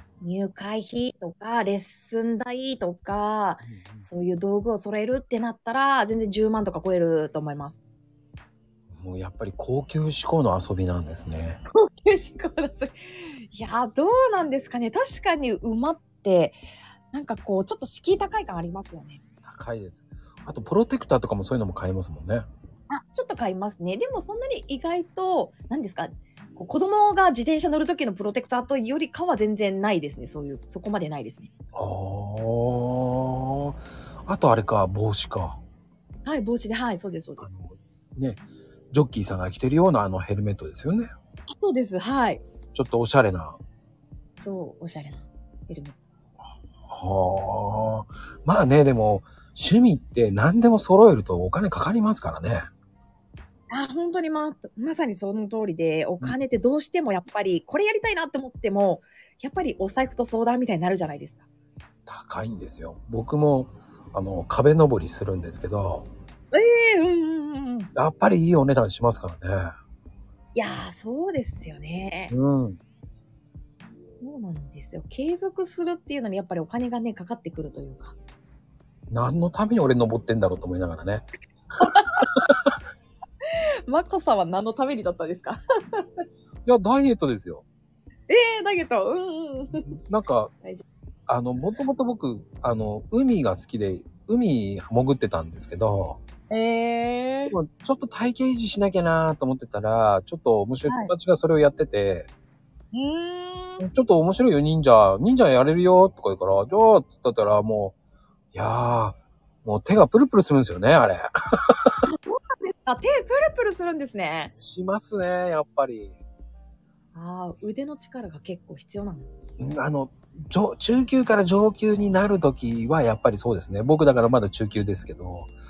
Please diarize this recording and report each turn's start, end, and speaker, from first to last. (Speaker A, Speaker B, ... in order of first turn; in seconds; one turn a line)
Speaker A: 0.2-7.8
Speaker B: 3.6-4.1
Speaker B: 8.9-11.6
Speaker A: 11.7-16.6
Speaker A: 17.1-19.2
Speaker B: 19.4-22.5
Speaker A: 22.9-31.5
Speaker B: 31.8-35.6
Speaker A: 36.2-37.5
Speaker B: 37.4-41.1
Speaker A: 41.5-42.4
Speaker B: 42.7-43.6
Speaker A: 44.4-46.0
Speaker B: 46.9-52.7
Speaker A: 53.7-61.4
Speaker B: 62.1-66.1
Speaker A: 66.5-67.9
Speaker B: 68.0-69.7
Speaker A: 70.5-72.3
Speaker B: 72.3-72.8
Speaker A: 74.2-78.2
Speaker B: 79.1-81.3
Speaker A: 81.8-82.1
Speaker B: 82.1-82.8
Speaker A: 83.5-86.2
Speaker B: 86.7-87.7
Speaker A: 88.3-90.0
Speaker B: 89.7-90.5
Speaker B: 91.3-96.2
Speaker A: 96.5-97.5
Speaker B: 97.5-102.3
Speaker A: 100.9-101.1
Speaker A: 102.9-103.9
Speaker B: 103.8-108.0
Speaker B: 108.5-111.9
Speaker A: 112.1-114.5
Speaker B: 114.5-116.2
Speaker A: 117.2-119.3
Speaker B: 119.6-125.5